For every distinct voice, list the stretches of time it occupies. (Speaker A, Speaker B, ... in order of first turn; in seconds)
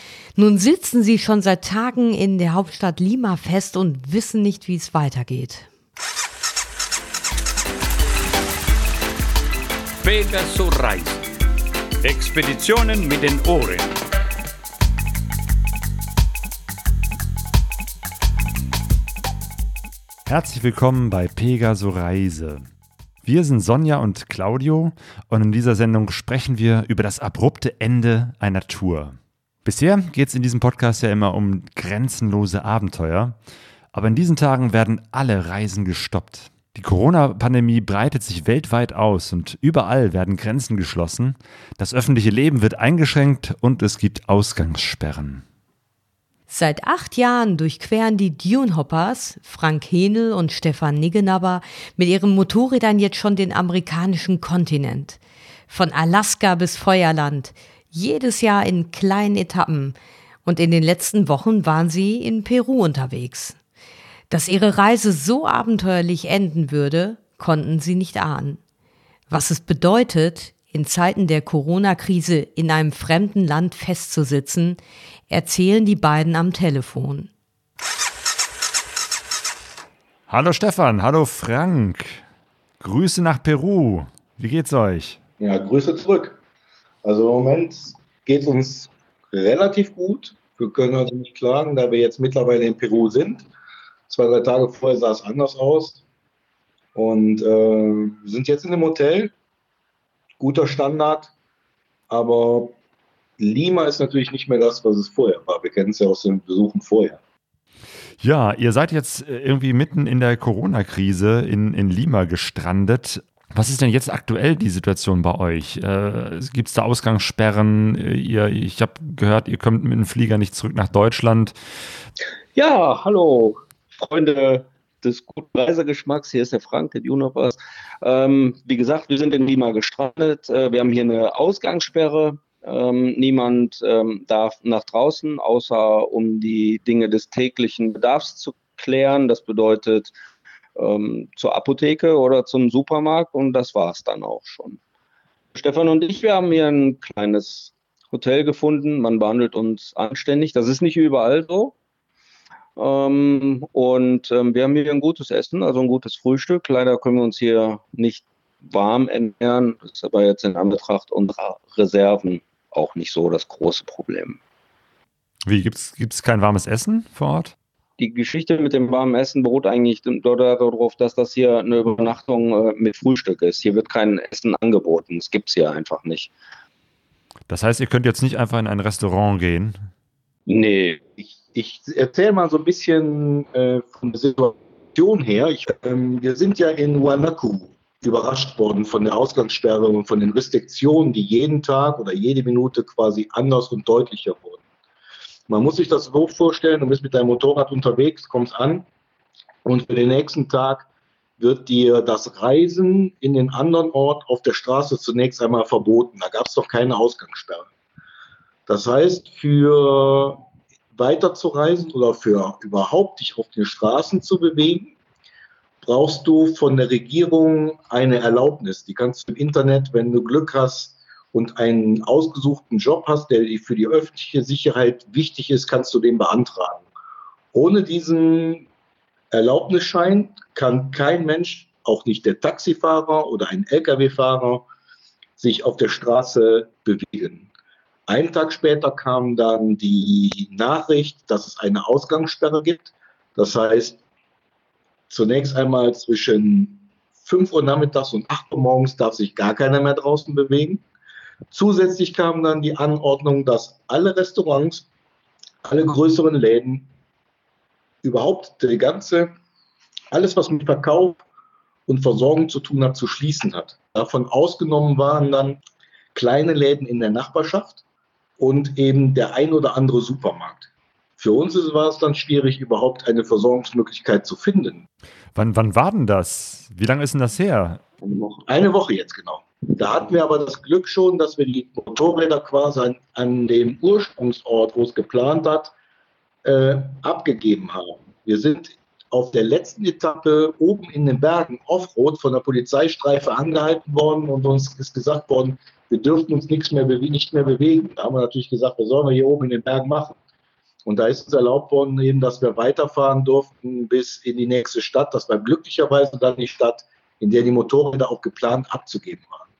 Speaker A: 0.4-5.7, 46.5-60.0, 60.5-63.6, 64.3-68.6, 69.3-77.3
Speaker B: 10.0-11.3, 12.0-14.0
Speaker C: 20.3-22.7, 23.2-33.4, 33.9-45.4, 80.3-82.2, 82.8-85.2, 108.2-121.6, 165.4-167.6, 177.5-179.8, 275.4-277.8
Speaker D: 85.4-86.4, 87.0-93.5, 94.1-96.0, 97.0-99.3, 100.4-101.3, 102.1-102.7, 103.4-107.2, 181.2-194.6, 195.5-198.9, 199.6-200.9, 201.4-207.7, 208.7-210.4, 210.9-214.9, 215.8-226.9, 227.5-228.7, 229.3-234.7, 235.4-237.5, 238.1-244.0, 245.1-250.8, 251.5-254.8, 255.6-256.9, 258.0-259.3, 260.1-261.2, 261.9-265.6, 266.1-267.8, 268.4-270.7, 271.2-274.9, 278.5-285.7, 286.4-300.2, 300.9-309.5
Speaker E: 122.6-140.1, 140.8-144.8, 145.6-151.8, 152.8-164.4, 168.0-176.3, 180.5-181.0, 278.0-278.4